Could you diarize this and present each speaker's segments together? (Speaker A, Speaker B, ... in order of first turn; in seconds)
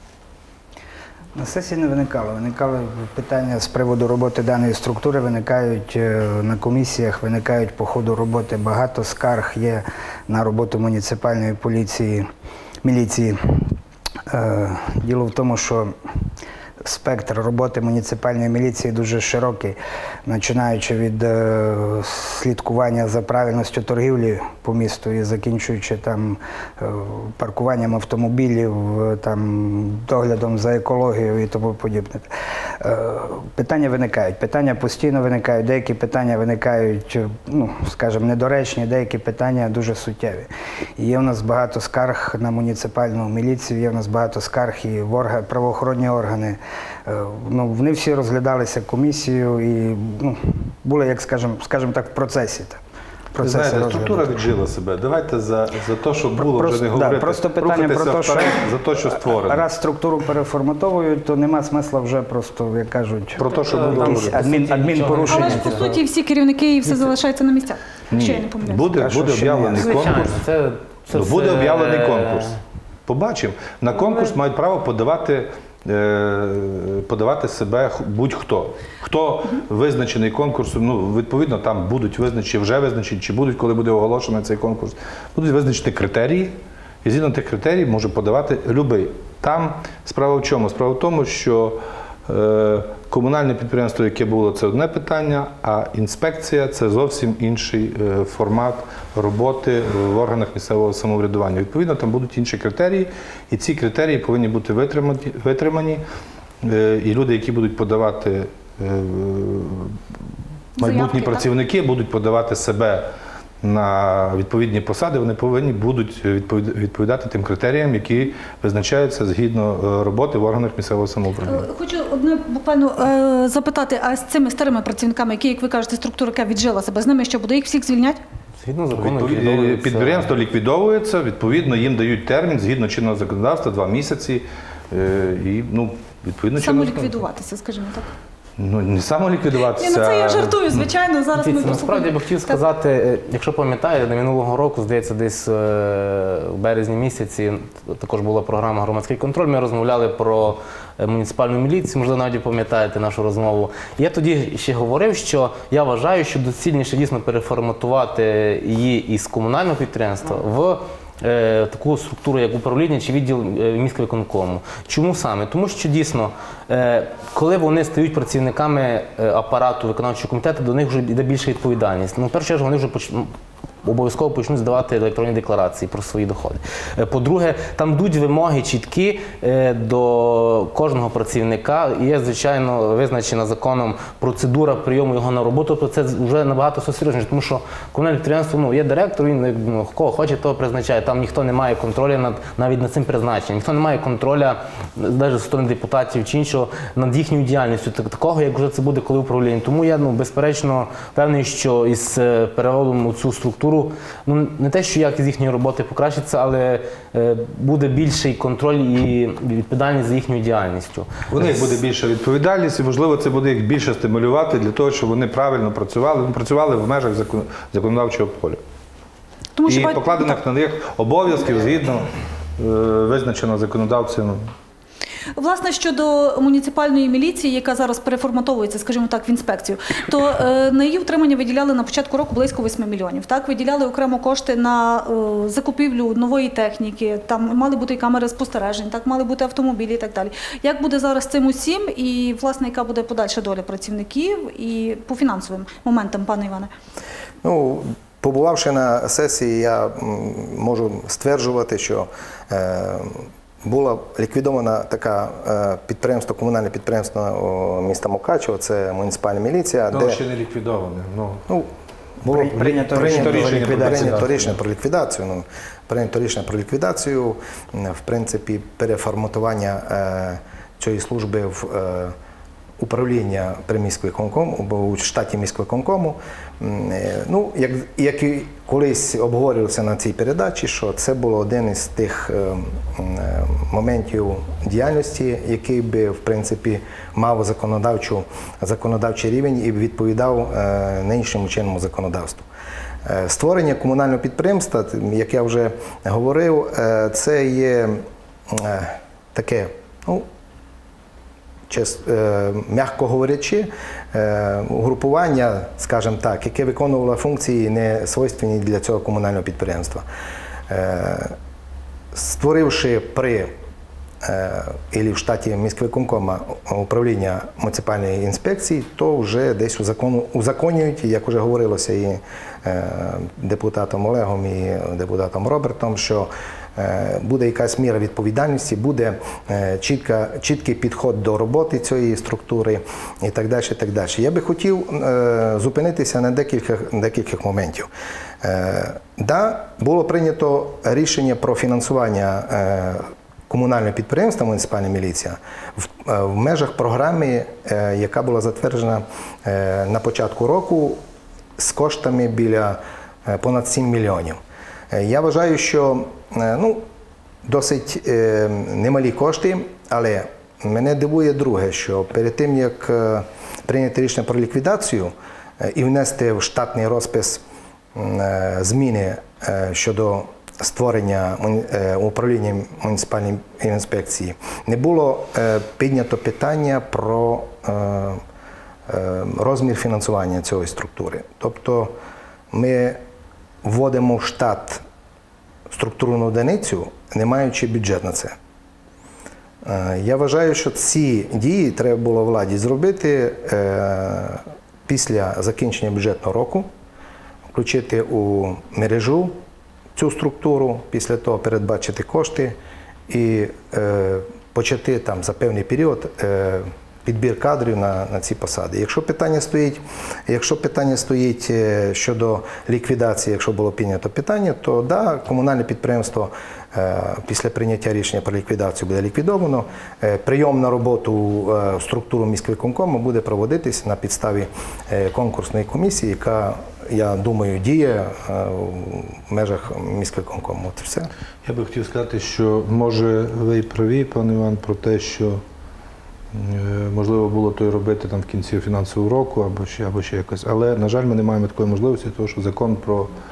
Speaker A: 1.4-12.3, 12.8-13.7, 14.3-15.9, 16.8-32.3, 32.8-52.8, 53.3-54.5, 56.3-65.9, 69.0-69.9, 262.3-264.3
Speaker B: 53.4-59.6, 63.4-64.4, 68.1-70.4, 71.1-72.5, 73.1-106.0, 106.6-110.0, 110.8-113.1, 113.6-121.7, 128.9-137.2, 138.6-140.8, 211.3-218.6, 219.7-224.5, 259.9-261.4, 262.8-264.5, 431.4-435.4, 436.3-443.1
Speaker C: 63.4-66.0, 69.8-72.6, 128.6-130.3, 141.3-173.3, 173.8-211.1
Speaker D: 65.3-68.8, 110.8-111.5, 121.4-128.2, 136.6-138.1, 139.7-142.6, 219.6-220.4, 225.3-246.7
Speaker E: 247.4-260.2, 262.2-272.1, 272.8-292.4, 293.0-300.3, 301.7-310.0, 310.7-311.4, 312.1-313.5, 314.2-337.9, 338.4-351.0, 351.6-354.4, 354.9-356.9, 357.4-367.4, 367.9-378.2, 378.9-381.9, 382.5-383.0, 383.6-384.8, 385.7-388.4, 389.6-396.7, 397.5-399.3, 399.9-402.6, 403.1-431.1